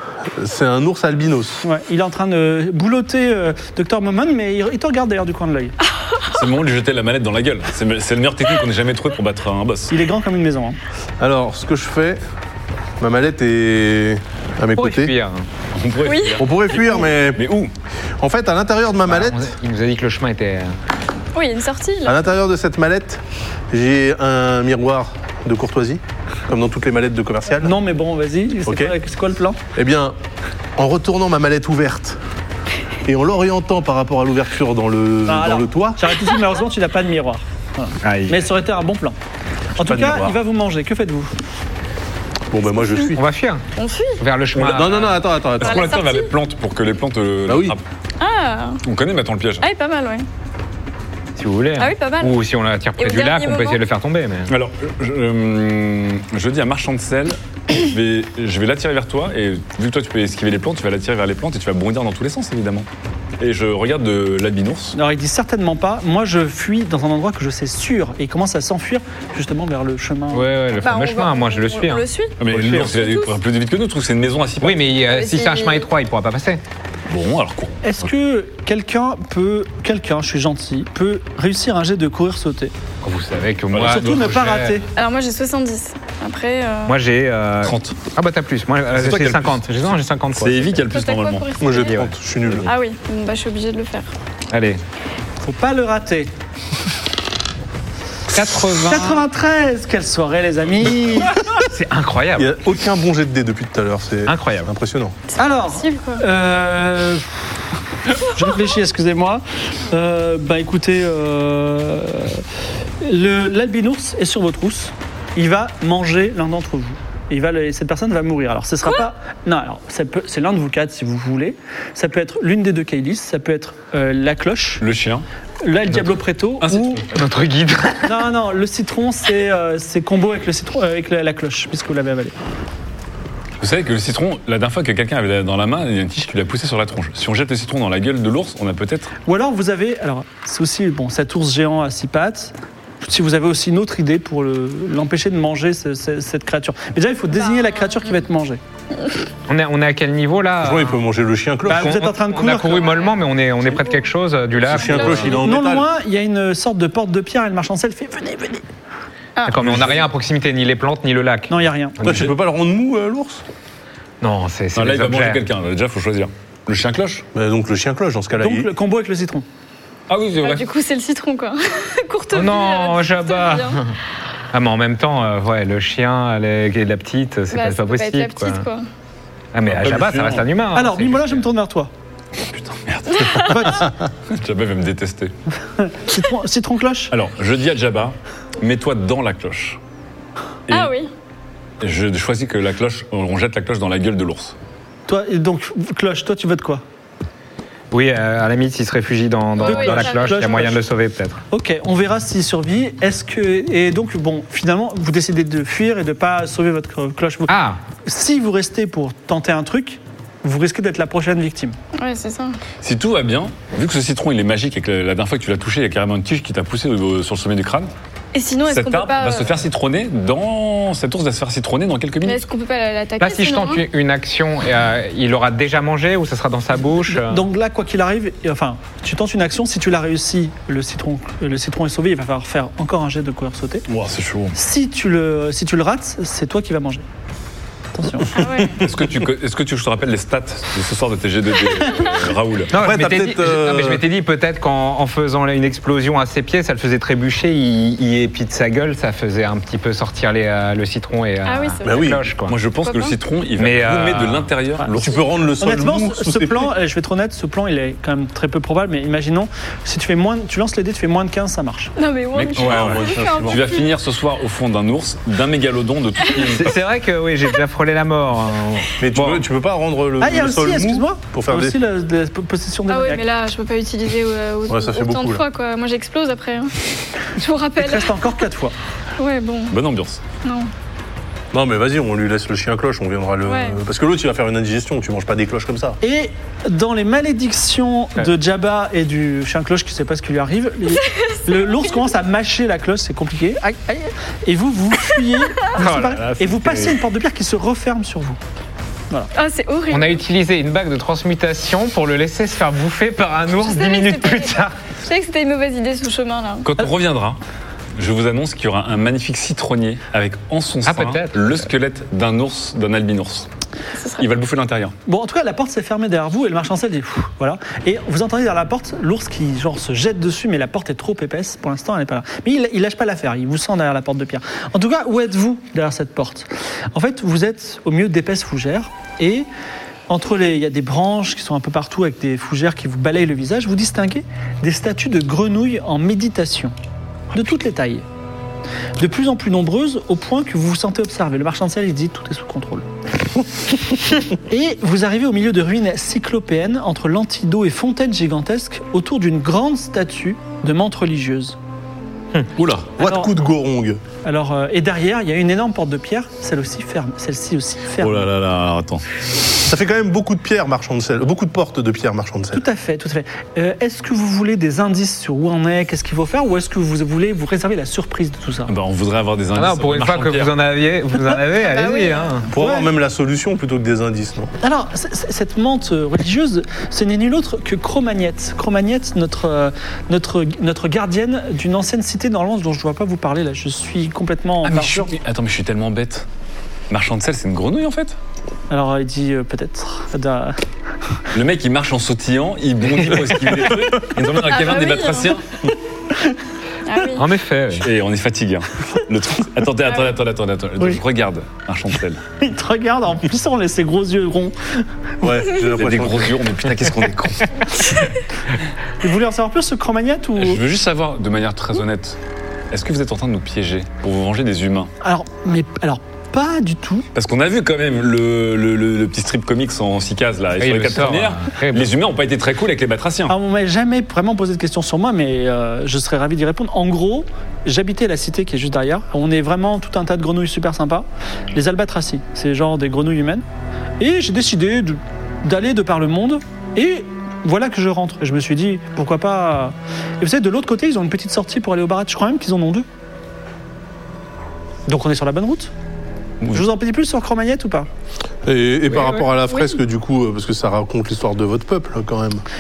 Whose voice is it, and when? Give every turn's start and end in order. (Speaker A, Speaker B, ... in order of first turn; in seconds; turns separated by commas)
Speaker A: 0.4-1.6, Speaker B: 1.6-5.8, Speaker C: 6.3-9.9, Speaker B: 9.9-10.8, Speaker A: 11.2-12.2, Speaker A: 13.0-15.1, Speaker D: 14.8-15.4, Speaker C: 15.8-17.7, Speaker E: 16.1-16.4, Speaker A: 16.4-17.4, Speaker A: 18.2-19.5, Speaker D: 19.1-20.7, Speaker E: 21.4-22.3, Speaker A: 22.1-27.8, Speaker B: 27.6-29.6, Speaker A: 28.7-28.9, Speaker A: 29.8-30.1, Speaker A: 30.8-32.2, Speaker A: 33.1-36.0, Speaker B: 35.3-39.2, Speaker D: 38.0-38.4, Speaker B: 39.8-41.3, Speaker A: 39.8-40.4, Speaker A: 42.5-43.2, Speaker D: 43.1-43.6, Speaker E: 43.8-44.2, Speaker D: 44.2-45.2, Speaker A: 44.6-45.9, Speaker C: 45.6-47.8, Speaker E: 45.6-46.3, Speaker A: 47.5-47.8, Speaker E: 48.2-48.8, Speaker C: 48.8-49.7, Speaker E: 49.6-50.3, Speaker D: 51.4-54.5, Speaker E: 51.8-52.4, Speaker E: 53.0-53.8, Speaker C: 54.5-62.9, Speaker C: 63.4-65.0, Speaker B: 65.0-70.5, Speaker D: 70.3-72.0, Speaker E: 70.8-73.3, Speaker C: 72.4-74.9, Speaker D: 74.6-76.6, Speaker E: 75.0-75.9, Speaker C: 77.1-77.8, Speaker B: 77.8-82.7, Speaker D: 83.0-84.8, Speaker C: 83.7-84.3, Speaker B: 83.8-84.9, Speaker E: 85.0-87.0, Speaker D: 86.9-90.9, Speaker C: 87.6-88.0, Speaker C: 88.9-89.6, Speaker C: 90.4-92.0, Speaker E: 90.9-92.1, Speaker A: 91.6-92.7, Speaker E: 92.7-94.1, Speaker D: 94.5-94.8, Speaker B: 95.4-96.3, Speaker D: 98.3-99.2, Speaker B: 98.8-101.3, Speaker D: 101.5-102.5, Speaker A: 102.4-105.2, Speaker D: 104.3-104.7, Speaker E: 105.3-106.2, Speaker B: 105.4-107.3, Speaker B: 108.3-112.4, Speaker B: 113.0-124.8, Speaker C: 124.8-125.2, Speaker B: 125.6-127.0, Speaker C: 125.9-127.0, Speaker D: 127.1-128.2, Speaker B: 128.1-132.3, Speaker C: 133.6-139.1, Speaker B: 139.3-148.6, Speaker E: 147.3-147.8, Speaker D: 149.5-151.0, Speaker A: 150.6-152.0, Speaker B: 151.7-152.9, Speaker D: 151.7-155.3, Speaker A: 154.7-155.9, Speaker E: 154.7-155.4, Speaker B: 155.3-158.6, Speaker E: 159.4-159.7, Speaker D: 159.5-162.3, Speaker A: 159.6-160.0, Speaker B: 161.5-162.2, Speaker A: 162.0-163.4, Speaker D: 164.2-165.4, Speaker C: 164.8-167.2, Speaker A: 167.3-168.7, Speaker B: 168.4-169.4, Speaker C: 170.1-170.7, Speaker E: 170.4-173.8, Speaker D: 172.3-173.9, Speaker D: 174.5-178.6, Speaker E: 177.5-178.9, Speaker D: 179.5-181.4, Speaker C: 179.7-180.5, Speaker B: 180.7-181.9, Speaker C: 182.6-185.3, Speaker E: 183.1-183.7, Speaker B: 183.5-183.9, Speaker B: 185.8-187.1, Speaker C: 187.1-189.8, Speaker E: 190.7-191.1, Speaker C: 191.8-194.6, Speaker B: 195.1-196.8, Speaker D: 197.9-201.4, Speaker E: 199.6-200.4, Speaker B: 199.6-200.8, Speaker B: 201.5-211.8, Speaker D: 207.5-207.8, Speaker E: 212.0-212.6, Speaker C: 212.8-217.9, Speaker E: 218.3-219.6, Speaker C: 218.7-222.4, Speaker E: 222.2-223.8, Speaker D: 223.2-227.4, Speaker B: 227.1-233.8, Speaker C: 233.9-234.6, Speaker B: 234.6-237.0, Speaker B: 237.9-238.5, Speaker E: 238.4-238.8, Speaker A: 238.4-239.1, Speaker C: 238.8-242.7, Speaker D: 242.7-252.6, Speaker A: 242.7-244.1, Speaker E: 251.4-252.2, Speaker A: 251.8-252.2, Speaker C: 252.5-255.3, Speaker E: 252.8-253.2, Speaker D: 253.6-254.5, Speaker A: 254.9-256.7, Speaker B: 255.6-261.9, Speaker E: 262.0-263.9, Speaker C: 262.3-266.8, Speaker D: 262.6-263.0, Speaker A: 262.7-263.6, Speaker D: 266.3-269.4, Speaker A: 269.0-271.8, Speaker B: 270.2-273.2, Speaker E: 272.9-276.8, Speaker A: 274.7-275.4, Speaker E: 277.4-278.3, Speaker B: 277.8-278.8, Speaker E: 279.2-279.8, Speaker C: 279.7-280.2, Speaker E: 280.4-280.7, Speaker A: 281.5-286.0, Speaker E: 283.4-283.8, Speaker B: 286.0-298.4, Speaker E: 291.0-291.9, Speaker D: 295.8-297.0, Speaker E: 299.4-300.2, Speaker D: 299.9-304.8, Speaker E: 303.6-306.7, Speaker C: 306.6-307.4, Speaker C: 308.0-313.5, Speaker D: 310.9-311.5, Speaker E: 314.0-314.2, Speaker C: 314.2-314.9, Speaker B: 315.1-329.5, Speaker B: 330.1-336.7, Speaker B: 337.3-338.1, Speaker B: 339.0-342.9, Speaker B: 344.5-351.6, Speaker A: 352.6-354.0, Speaker B: 353.0-353.3, Speaker B: 354.2-358.3, Speaker C: 358.0-359.0, Speaker A: 359.7-362.6, Speaker B: 362.5-368.7, Speaker C: 368.7-370.5, Speaker D: 369.6-372.5, Speaker E: 371.6-372.5, Speaker A: 372.5-374.5, Speaker B: 372.6-372.9, Speaker B: 374.6-385.1, Speaker C: 384.6-386.3, Speaker C: 386.9-388.2, Speaker B: 388.7-390.6, Speaker C: 391.3-395.5, Speaker E: 394.5-395.4, Speaker E: 396.9-397.2, Speaker D: 397.2-397.9, Speaker C: 397.8-402.2, Speaker B: 402.4-405.3, Speaker A: 405.2-406.4, Speaker C: 405.8-408.1, Speaker B: 409.0-410.6, Speaker C: 410.4-412.2, Speaker C: 412.7-414.9, Speaker B: 415.0-417.1, Speaker C: 417.1-423.4, Speaker D: 420.6-421.9, Speaker B: 423.3-433.4, Speaker B: 434.0-442.9, Speaker B: 444.9-445.7, Speaker B: 446.5-447.9, Speaker A: 448.5-452.4, Speaker D: 448.9-449.3